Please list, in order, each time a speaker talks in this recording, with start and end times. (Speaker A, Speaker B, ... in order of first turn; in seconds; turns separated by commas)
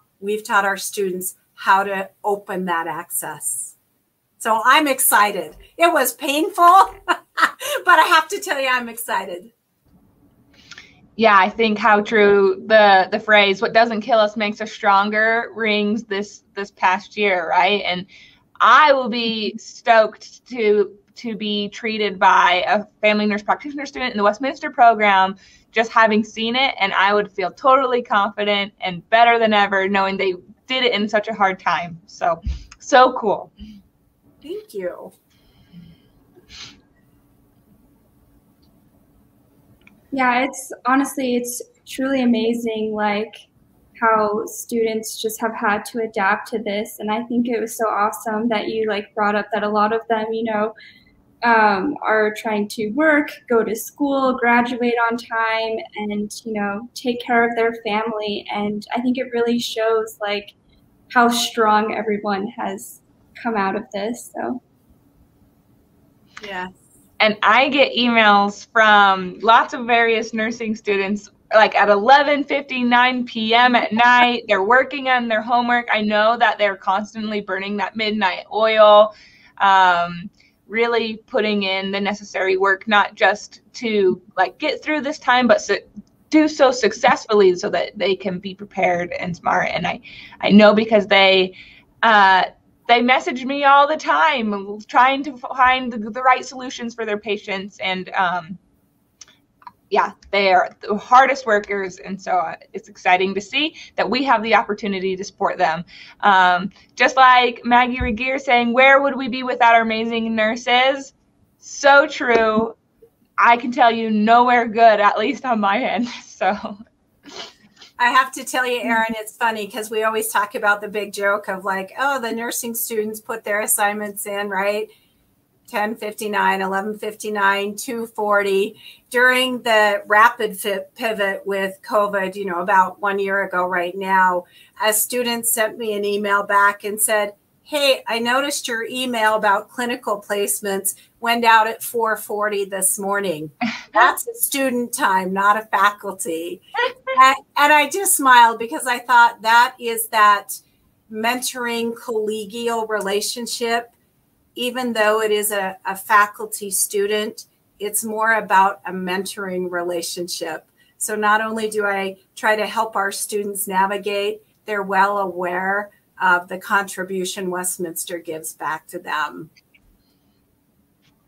Speaker A: 0.2-3.8, Speaker A: 4.4-9.5, Speaker B: 11.2-18.1, Speaker B: 18.6-33.5, Speaker A: 34.4-35.1, Speaker C: 40.1-43.4, Speaker C: 44.0-50.7, Speaker C: 51.4-60.5, Speaker C: 61.1-64.6, Speaker A: 66.4-66.7, Speaker B: 67.2-98.6, Speaker B: 99.9-112.8, Speaker B: 113.4-116.8, Speaker A: 118.0-124.9, Speaker A: 125.7-153.9, Speaker A: 154.6-169.5